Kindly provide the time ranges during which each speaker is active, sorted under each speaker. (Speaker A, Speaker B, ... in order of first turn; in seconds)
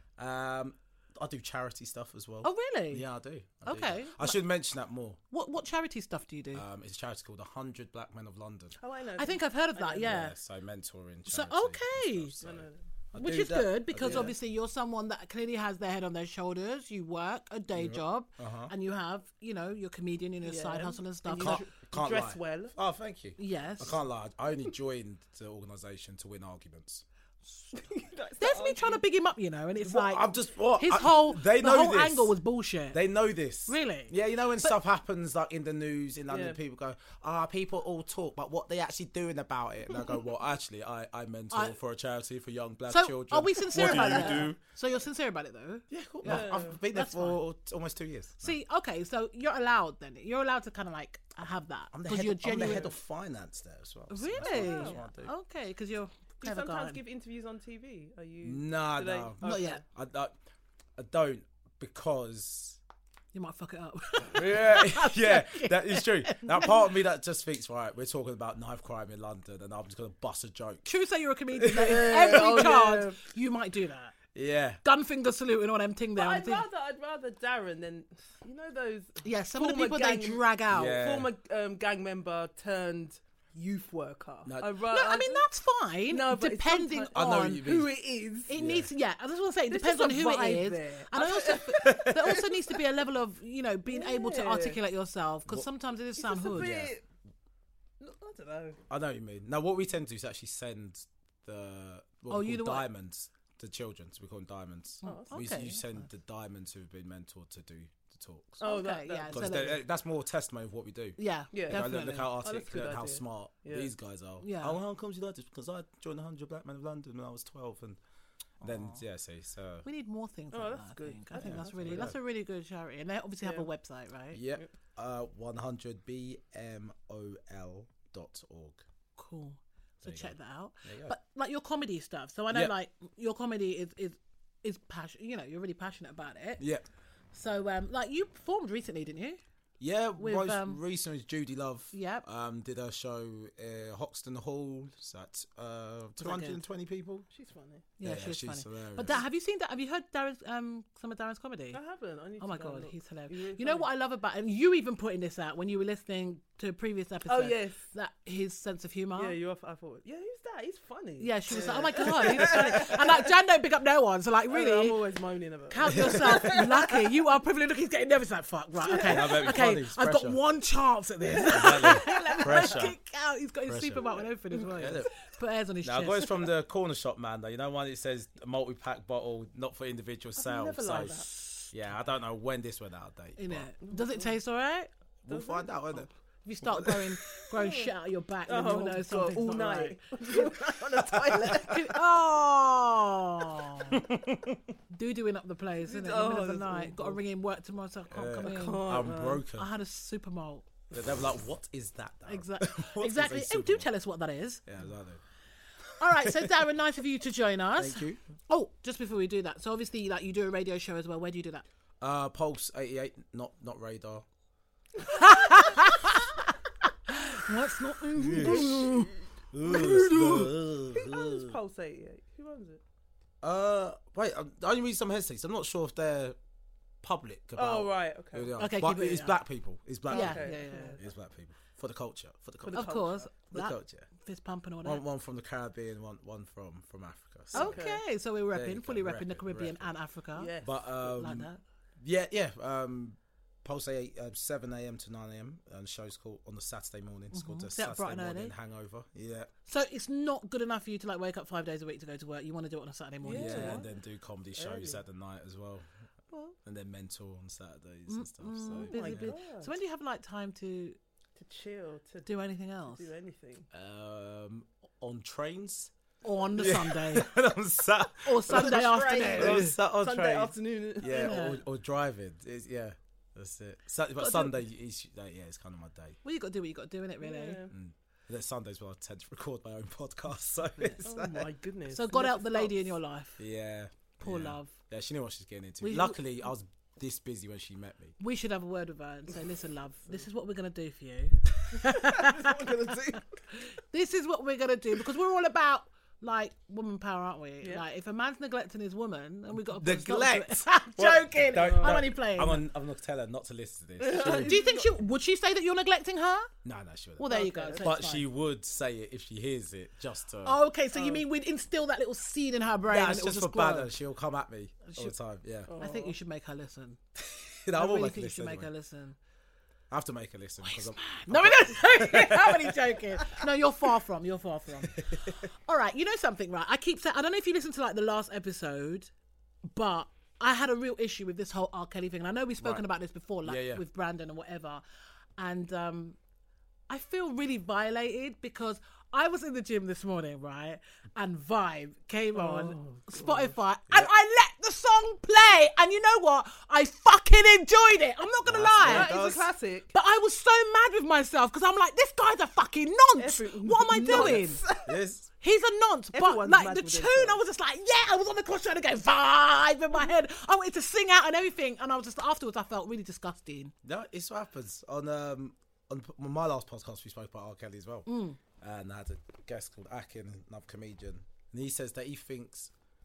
Speaker A: 0.2-5.2, 6.5-8.8, 9.9-14.3, 17.8-18.7, 21.4-27.0, 29.8-32.4, 32.9-44.6, 45.9-48.6, 51.9-55.3, 58.4-60.3, 61.0-62.8, 64.3-70.9, 71.5-72.8, 74.3-74.8, 80.7-81.3, 84.5-84.8, 87.1-87.9, 88.5-88.9, 91.8-92.4, 96.5-97.0, 98.9-108.6, 109.3-118.0, 118.6-119.9, 121.4-122.2, 124.3-128.8, 130.0-131.2, 136.6-136.8, 139.8-147.3, 148.0-149.2, 162.2-162.8, 165.9-166.6, 169.1-170.4, 171.5-173.0, 173.7-174.1, 174.7-175.1, 175.8-183.7, 185.2-186.1, 186.6-187.3, 190.9-191.7, 193.9-194.6, 198.1-199.7, 200.9-203.9, 204.7-205.2, 206.1-206.6, 207.8-208.2, 212.0-214.2, 218.2-218.9, 219.5-221.6, 223.4-226.4, 227.0-234.1, 234.8-237.8, 238.5-239.9, 240.6-241.5, 242.0-249.5, 253.3-255.9, 256.6-259.4, 263.7-265.9, 266.5-276.2, 277.7-281.5, 283.4-288.2, 292.3-292.6, 299.5-304.7, 306.6-310.6, 312.9-315.7, 317.3-318.7, 319.9-323.0, 324.8-325.4, 333.4-333.8, 348.4-349.5, 354.0-355.3, 363.8-372.7
Speaker B: 2.4-3.0, 3.6-4.4, 5.3-6.6, 9.2-10.4, 11.3-12.3, 13.2-21.7, 23.4-24.0, 28.4-33.0, 33.7-34.8, 42.9-47.4, 48.4-52.9, 54.1-57.0, 59.4-59.8, 63.3-66.8, 70.8-74.2, 74.8-76.7, 79.2-81.0, 84.9-87.7, 88.5-96.8, 102.3-102.9, 105.0-106.1, 108.6-109.8, 111.2-112.3, 114.4-114.8, 118.6-119.0, 119.8-124.4, 129.2-136.6, 137.3-139.4, 140.2-140.8, 141.9-142.2, 146.2-146.6, 148.0-151.8, 152.4-159.4, 161.2-165.0, 165.7-176.4, 181.3-181.7, 183.4-184.9, 186.4-190.6, 191.4-194.0, 194.9-200.7, 202.3-204.6, 206.0-211.7, 215.1-216.3, 217.1-219.1, 219.7-220.5, 228.6-229.4, 230.1-231.0, 232.7-235.0, 237.5-241.6, 247.3-248.6, 249.7-253.8, 258.1-261.0, 262.3-263.1, 266.2-267.4, 268.1-269.7, 271.1-271.6, 274.2-274.6, 276.2-277.7, 280.8-281.0, 281.9-283.4, 284.2-284.7, 285.8-286.2, 288.2-292.6, 293.5-302.6, 304.4-306.5, 307.2-308.3, 310.4-313.9, 314.9-315.2, 315.8-317.0, 317.7-319.2, 320.6-329.1, 329.7-334.8, 335.4-336.2, 336.9-349.2, 349.9-354.6, 355.4-363.7, 368.1-368.4
Speaker C: 8.8-10.1, 12.4-12.8, 14.0-14.3, 20.4-22.7, 27.7-29.0, 36.3-36.6, 43.7-44.5, 46.2-46.8, 54.4-55.0, 56.4-59.8, 71.7-73.2, 76.2-85.5, 86.1-88.5, 89.7-92.6, 93.9-94.8, 96.2-97.0, 98.0-98.8, 105.0-105.5, 108.6-109.7, 111.5-113.9, 120.5-122.1, 123.4-123.7, 147.3-147.9, 151.7-153.9, 157.3-157.8, 159.2-163.2, 164.5-167.0, 168.8-169.4, 171.4-172.6, 180.4-181.3, 183.8-184.3, 185.3-186.1, 187.5-187.9, 188.5-192.0, 195.9-197.2, 198.4-199.4, 218.3-219.1, 220.0-222.8, 227.6-228.5, 230.1-231.0, 232.6-233.3, 237.5-238.0, 240.3-240.8, 253.2-253.9, 254.6-255.0, 258.8-259.7, 261.4-262.3, 262.9-263.7, 268.5-271.6, 277.2-277.7, 281.0-283.0, 292.2-293.2, 301.6-302.0, 304.0-304.9, 307.3-307.9, 310.9-311.2, 315.7-316.2, 342.4-343.5, 348.8-349.9, 353.2-355.0, 356.1-357.4